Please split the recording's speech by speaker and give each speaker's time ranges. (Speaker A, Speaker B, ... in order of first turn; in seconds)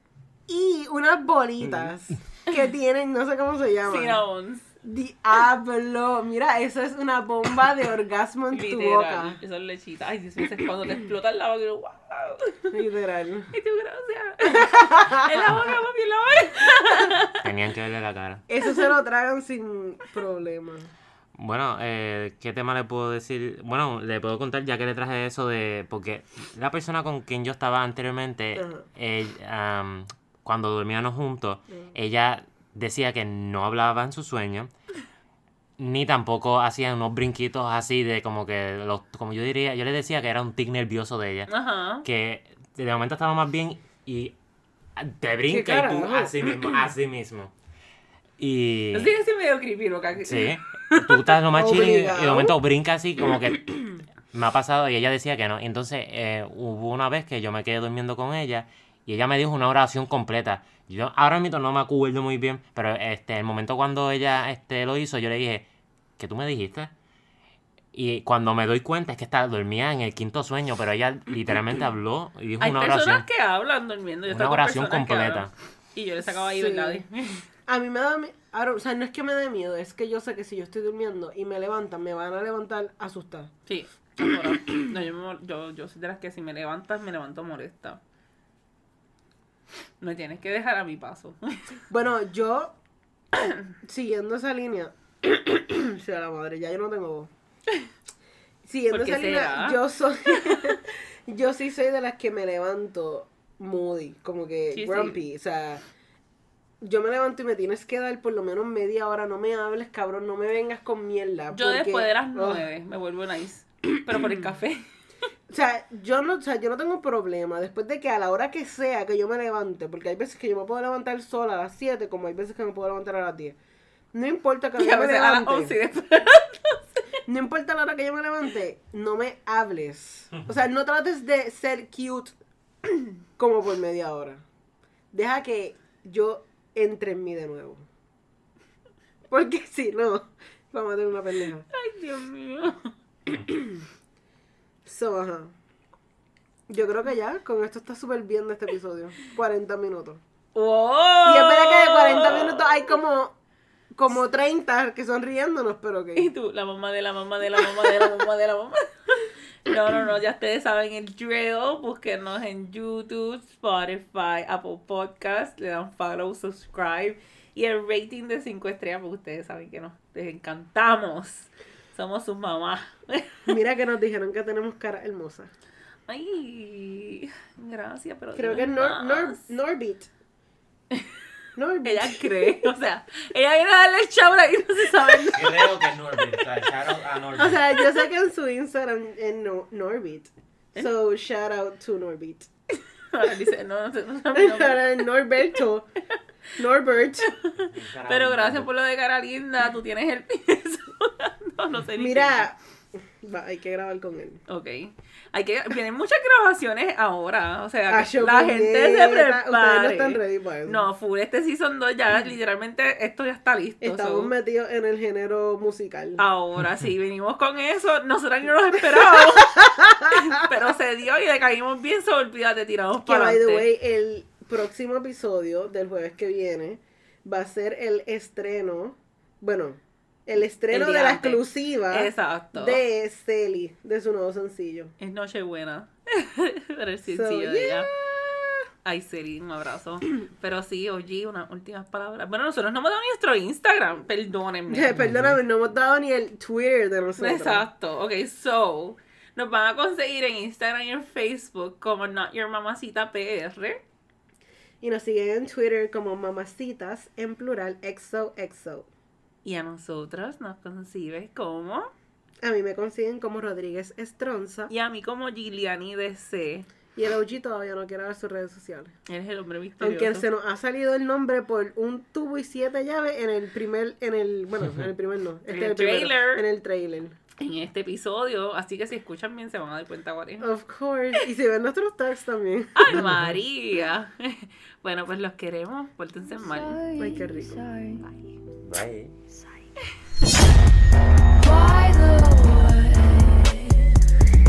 Speaker A: 0.5-4.2, 4.8-9.4, 12.7-13.5, 14.4-15.6, 18.5-20.9, 28.6-28.8, 45.5-46.3, 51.5-52.6, 76.3-77.0, 77.7-83.5, 91.9-92.7, 93.8-97.3, 98.6-105.8, 106.8-112.6, 114.2-114.5, 115.5-123.6, 124.1-125.8, 127.3-132.3, 133.4-134.4, 135.1-137.9, 139.3-141.7, 143.3-143.8, 144.8-145.6, 146.7-150.2, 151.2-153.3, 153.9-156.3, 157.7-158.1, 173.5-175.5, 178.3-180.1, 181.6-182.7, 187.4-192.5, 194.3-195.9, 196.6-197.3, 202.0-204.4, 207.9-210.8, 213.8-216.2, 219.2-220.3, 223.0-234.9, 237.1-238.5, 244.7-247.7, 254.8-258.9, 262.4-264.7, 266.9-268.9, 269.8-277.1, 280.4-283.1, 287.0-287.6
Speaker B: 3.9-4.6, 8.5-12.7, 13.5-17.4, 41.5-42.0, 48.9-51.0, 72.6-77.4, 83.7-88.0, 90.0-91.7, 98.9-100.7, 104.7-105.2, 111.5-114.8, 124.8-126.8, 141.7-142.9, 150.6-152.8, 156.2-173.5, 176.1-179.5, 181.8-185.7, 193.1-195.1, 197.3-202.4, 204.5-214.3, 216.2-223.6, 230.7-232.8, 235.0-237.9, 238.8-245.0, 247.2-253.8, 259.4-261.9, 264.7-266.7, 269.1-270.3, 275.5-276.4, 277.4-280.5, 282.7-286.8
Speaker C: 17.4-18.4, 21.4-34.7, 35.8-41.5, 42.0-44.3, 45.0-47.5, 48.4-49.1, 50.2-65.7, 66.2-66.9, 67.9-73.3, 74.3-75.5, 185.3-187.6, 197.6-198.7, 244.9-245.3, 282.9-283.4, 288.6-289.1
Speaker D: 286.3-288.1, 291.4-293.9